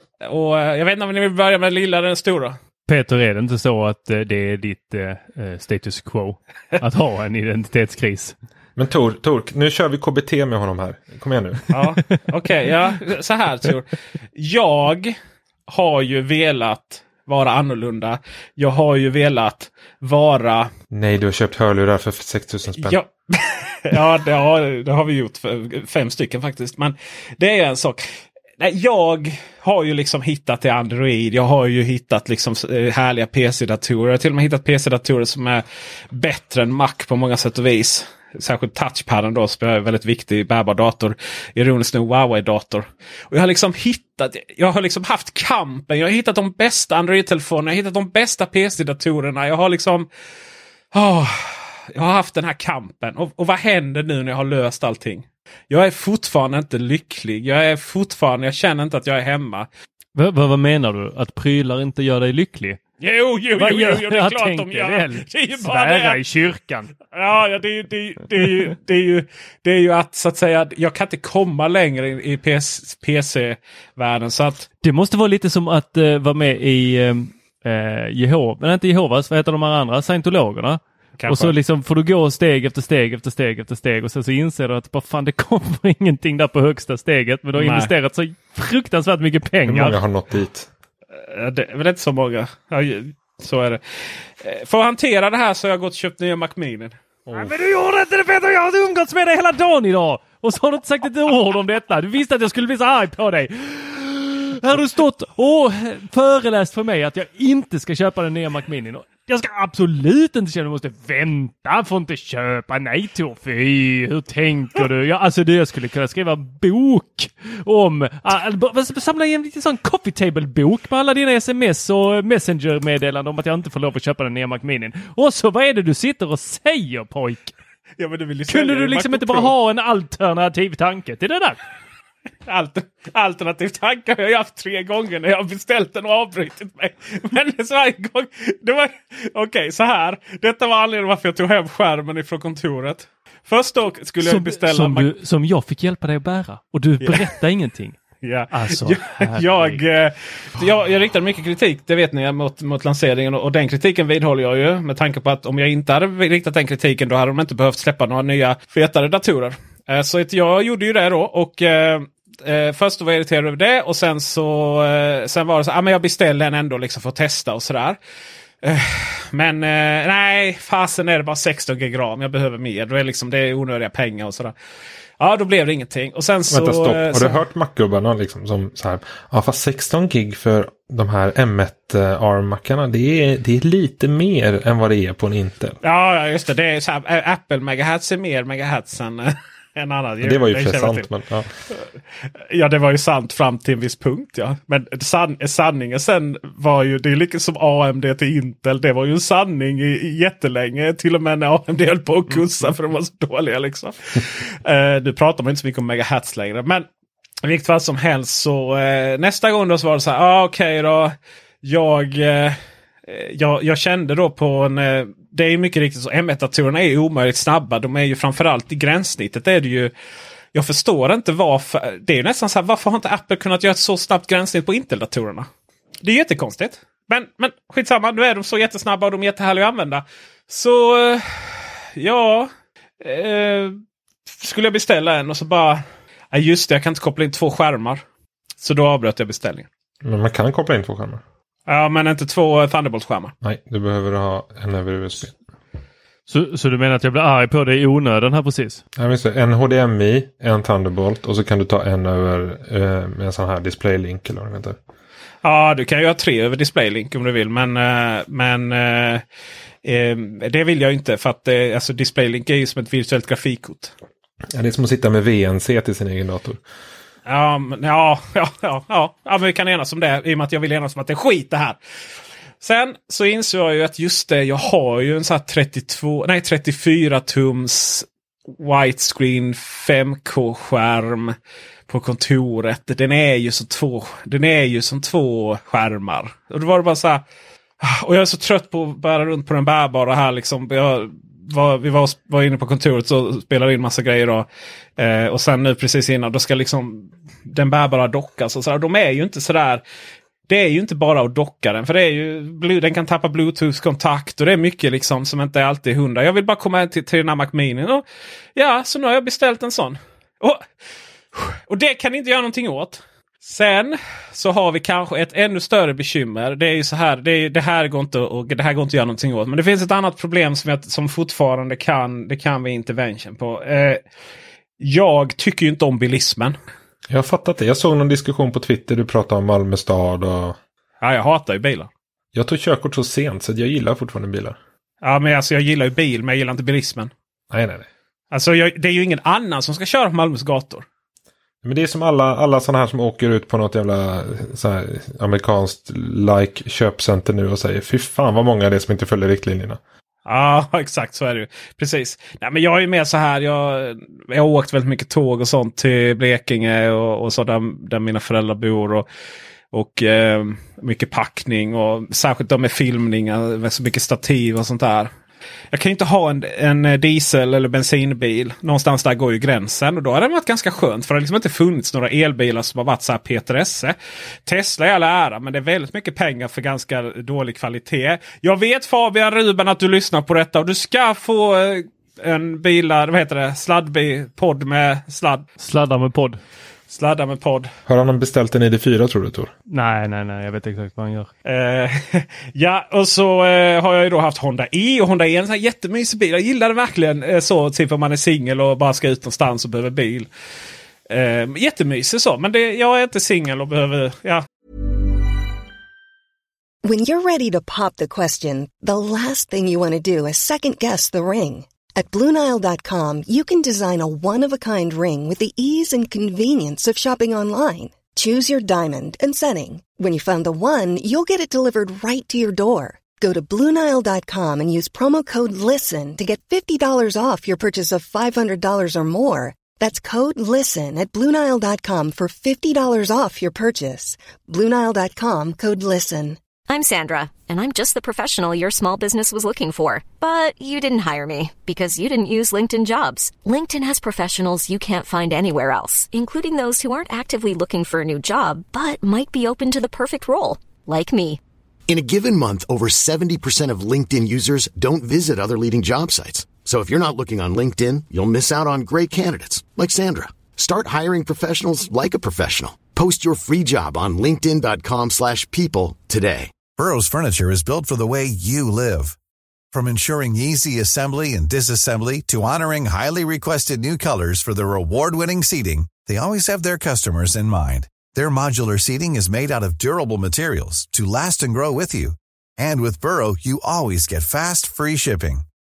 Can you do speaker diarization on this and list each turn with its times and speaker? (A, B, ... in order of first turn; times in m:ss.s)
0:00.2-0:02.6 A
0:02.9-0:08.4 B
0:08.8-0:11.8 C
0:11.7-0:15.2 A
0:15.7-0:20.7 A
0:20.9-0:23.0 C
0:22.8-0:50.1 A
0:50.9-0:59.7 A
1:00.2-1:02.8 B
1:03.0-1:06.2 A
1:03.6-1:06.9 B
1:07.1-1:14.7 A
1:14.8-1:30.0 B
1:21.2-1:21.6 A
1:27.6-1:27.9 A
1:29.7-1:30.7 C
1:31.1-1:37.0 A
1:37.3-1:37.6 C
1:37.3-2:07.5 B
2:08.0-2:09.5 A
2:08.5-2:11.6 B
2:12.5-2:25.1 A
2:24.2-2:29.8 B
2:27.0-2:27.3 A
2:28.2-2:48.0 A
2:48.6-2:54.6 A
2:55.2-2:57.4 A
2:56.5-3:05.8 C
3:05.8-3:11.1 A
3:10.2-3:11.5 C
3:12.5-3:26.9 A
3:27.4-3:39.9 A
3:40.5-3:45.5 A
3:46.0-3:53.8 A
3:54.4-3:58.0 A
3:58.6-3:59.7 A
4:00.0-4:01.2 C
4:01.7-4:03.3 A
4:03.4-4:05.4 C
4:06.3-4:08.8 B
4:09.0-4:14.8 C
4:15.4-4:19.2 A
4:19.8-4:23.9 A
4:24.5-4:26.6 C
4:27.3-4:31.8 A
4:32.6-4:41.4 A
4:41.9-4:47.2 A
4:47.8-4:59.8 A
5:00.5-5:08.0 A
5:08.6-5:10.6 A
5:11.3-5:24.0 A
5:24.8-5:26.6 A
5:27.1-5:30.6 C
5:31.0-5:31.9 A
5:32.3-5:34.6 C
5:35.0-5:37.1 A
5:37.5-5:37.9 C
5:38.3-5:40.8 A
5:41.6-5:49.8 C
5:50.3-5:59.1 A
5:59.7-6:05.1 A
6:05.7-6:14.0 A
6:14.5-6:25.5 A
6:25.6-6:26.4 B
6:26.9-6:27.7 A
6:27.9-6:29.5 C
6:29.7-6:31.3 B
6:31.4-6:40.3 A
6:41.1-6:44.4 A
6:46.8-7:16.4 D
7:16.7-7:31.4 E
7:31.9-7:46.5 F
7:46.8-7:49.2 G
7:49.7-8:05.4 G